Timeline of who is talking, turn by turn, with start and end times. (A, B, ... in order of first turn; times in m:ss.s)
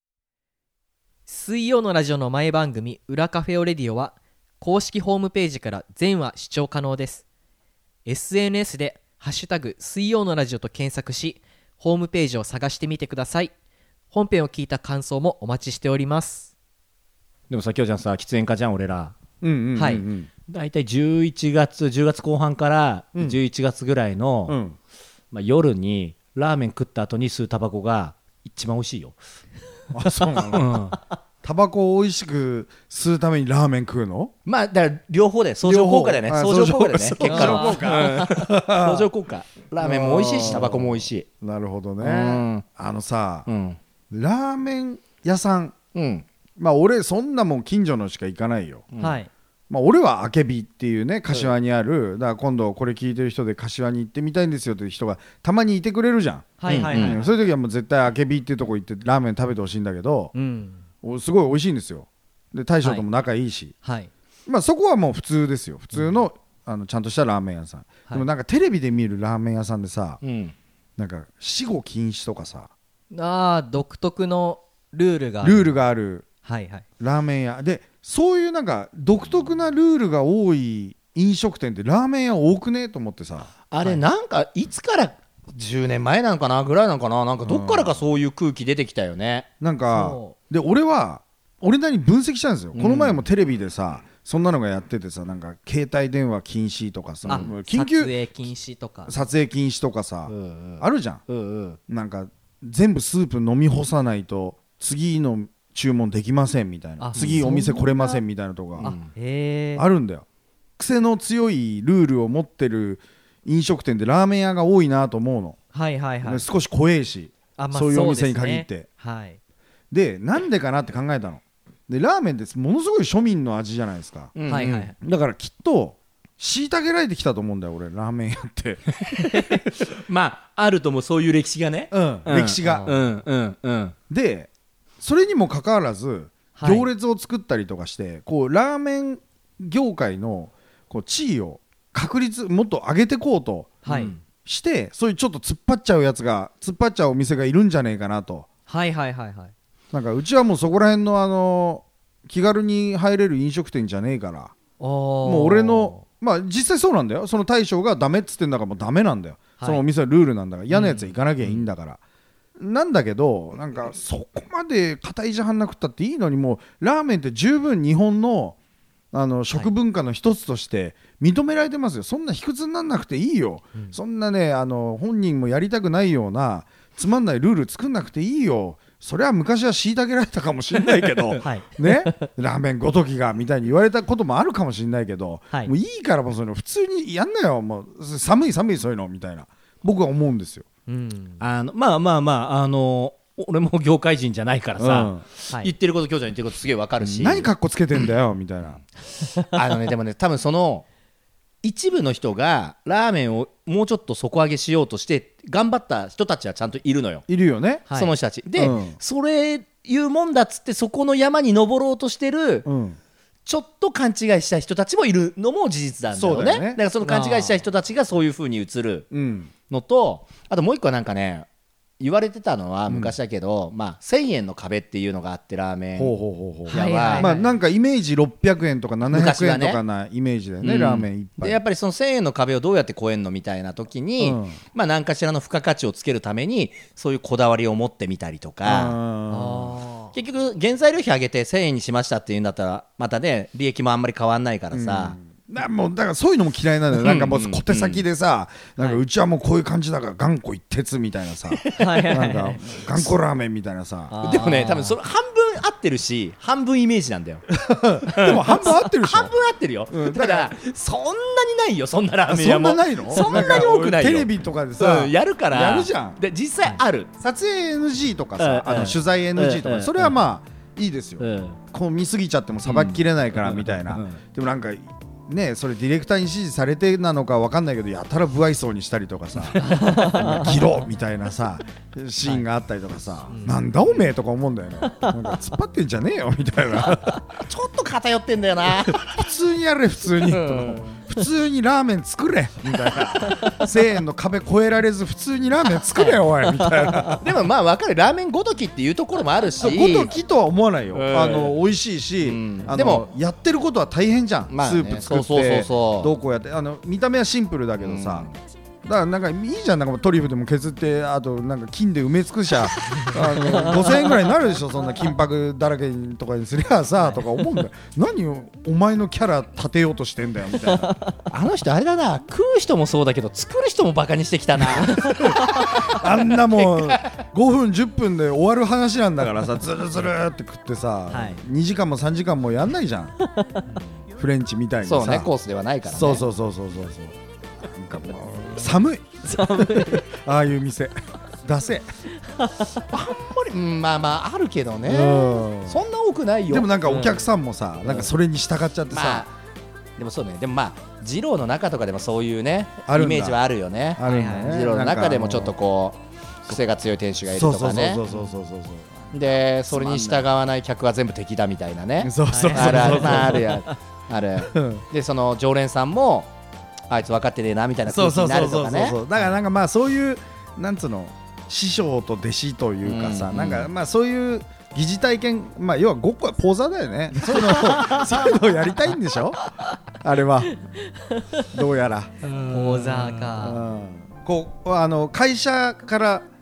0:01.3-0:07.2 A
0:08.0-0:13.5 A
0:14.1-0:16.5 A
0:17.5-0:19.2 B
0:19.4-0:20.3 C
0:19.8-0:20.0 A
0:20.5-0:24.6 B
0:24.5-0:24.8 C
0:25.3-0:29.2 B
0:29.9-0:34.3 C
0:30.2-0:31.0 B
0:34.4-0:41.3 B
0:35.6-0:39.1 C
0:37.2-0:38.2 A
0:39.8-0:43.5 C
0:42.0-0:42.6 B
0:43.5-0:43.8 B
0:44.1-0:45.8 C
0:45.9-0:46.2 B
0:46.6-0:48.8 C
0:48.9-0:49.2 B
0:49.0-0:49.3 A
0:49.7-1:00.3 C
0:56.6-0:57.3 A
0:56.7-0:57.2 B
1:00.3-1:00.8 A
1:01.0-1:03.7 C
1:03.8-1:04.1 A
1:04.4-1:10.2 C
1:10.2-1:10.5 B
1:11.0-1:12.7 C
1:13.1-1:15.7 A
1:15.4-1:16.2 C
1:16.4-1:16.8 A
1:17.0-1:23.5 C
1:23.7-1:29.5 B
1:27.4-1:28.0 C
1:29.6-1:38.1 C
1:29.9-1:30.4 A
1:32.7-1:33.2 B
1:37.2-1:37.5 B
1:37.3-1:39.1 A
1:39.0-1:41.2 C
1:40.3-1:41.8 B
1:41.9-1:48.9 C
1:47.0-1:47.8 A
1:47.1-1:48.2 B
1:48.8-1:49.1 B
1:48.8-1:49.9 A
1:49.8-1:50.2 C
1:50.8-1:55.6 C
1:55.7-1:56.5 A
1:56.2-1:58.9 C
1:57.6-1:59.4 A
1:59.9-2:04.3 C
2:04.4-2:04.9 B
2:04.5-2:04.9 A
2:05.0-2:08.9 C
2:09.1-2:13.9 B
2:11.9-2:12.9 C
2:12.6-2:13.0 A
2:14.1-2:23.8 C
2:16.6-2:16.9 A
2:23.8-2:24.1 A
2:23.8-2:24.2 B
2:24.4-2:28.4 C
2:28.7-2:29.5 A
2:29.9-2:34.5 C
2:34.8-2:36.0 A
2:35.2-2:42.0 C
2:40.7-2:41.0 A
2:42.6-2:48.6 C
2:49.1-3:10.6 C
3:00.8-3:01.4 B
3:01.4-3:02.2 A
3:10.9-3:11.4 A
3:11.4-3:18.1 B
3:14.8-3:15.2 C
3:17.0-3:18.8 C
3:19.4-3:20.8 B
3:21.6-3:27.2 B
3:27.3-3:27.8 C
3:27.9-3:32.7 B
3:28.6-3:29.0 C
3:32.6-3:33.0 C
3:33.4-3:39.1 B
3:36.1-3:36.8 C
3:37.0-3:37.6 A
3:39.1-3:39.5 C
3:39.7-3:41.5 B
3:42.0-3:46.1 B
3:42.9-3:43.2 C
3:46.0-3:51.6 C
3:46.7-3:47.5 A
3:46.7-3:47.3 B
3:49.1-3:49.8 B
3:50.6-3:59.0 B
3:54.2-3:54.6 C
3:58.6-3:59.8 C
3:59.3-4:00.1 A
4:00.1-4:05.2 B
4:04.7-4:14.1 C
4:07.0-4:08.0 B
4:11.6-4:12.1 B
4:11.7-4:12.6 A
4:14.1-4:15.0 A
4:14.2-4:17.5 B
4:17.5-4:19.3 C
4:18.0-4:27.1 B
4:19.9-4:20.5 C
4:22.2-4:26.2 C
4:23.1-4:23.6 A
4:27.2-4:47.2 C
4:28.4-4:30.2 B
4:31.2-4:31.6 B
4:32.6-4:34.2 B
4:39.6-4:40.6 A
4:43.3-4:43.6 A
4:47.4-4:49.1 B
4:48.9-4:57.2 C
4:50.2-4:51.0 B
4:55.9-4:56.2 B
4:57.1-5:00.1 B
4:59.6-5:08.3 C
5:00.9-5:01.6 B
5:02.2-5:03.1 B
5:04.5-5:06.1 B
5:07.8-5:08.4 B
5:08.8-5:21.0 C
5:12.9-5:13.4 A
5:20.6-5:21.2 A
5:21.3-5:27.2 B
5:24.7-5:33.1 C
5:24.8-5:25.7 A
5:31.1-5:31.4 A
5:33.2-5:33.7 A
5:34.2-5:35.3 C
5:34.8-5:36.2 B
5:35.8-5:41.9 C
5:39.2-5:40.1 A
5:42.4-5:42.8 A
5:42.9-5:47.2 B
5:44.8-5:45.8 C
5:46.5-5:49.3 C
5:47.8-5:48.1 B
5:48.9-5:49.3 B
5:50.0-5:58.0 B
5:52.9-5:53.4 C
5:53.9-5:55.5 C
5:54.0-5:54.6 A
5:57.3-6:00.2 C
5:59.1-6:06.3 B
6:02.0-6:03.6 C
6:02.3-6:03.7 A
6:04.5-6:04.8 C
6:06.9-6:09.3 B
6:07.8-6:20.6 C
6:12.8-6:13.7 B
6:17.4-6:18.1 A
6:17.5-6:18.1 B
6:21.0-6:21.4 A
6:21.5-6:22.1 C
6:22.2-6:23.6 A
6:22.5-6:23.1 B
6:23.4-6:26.3 C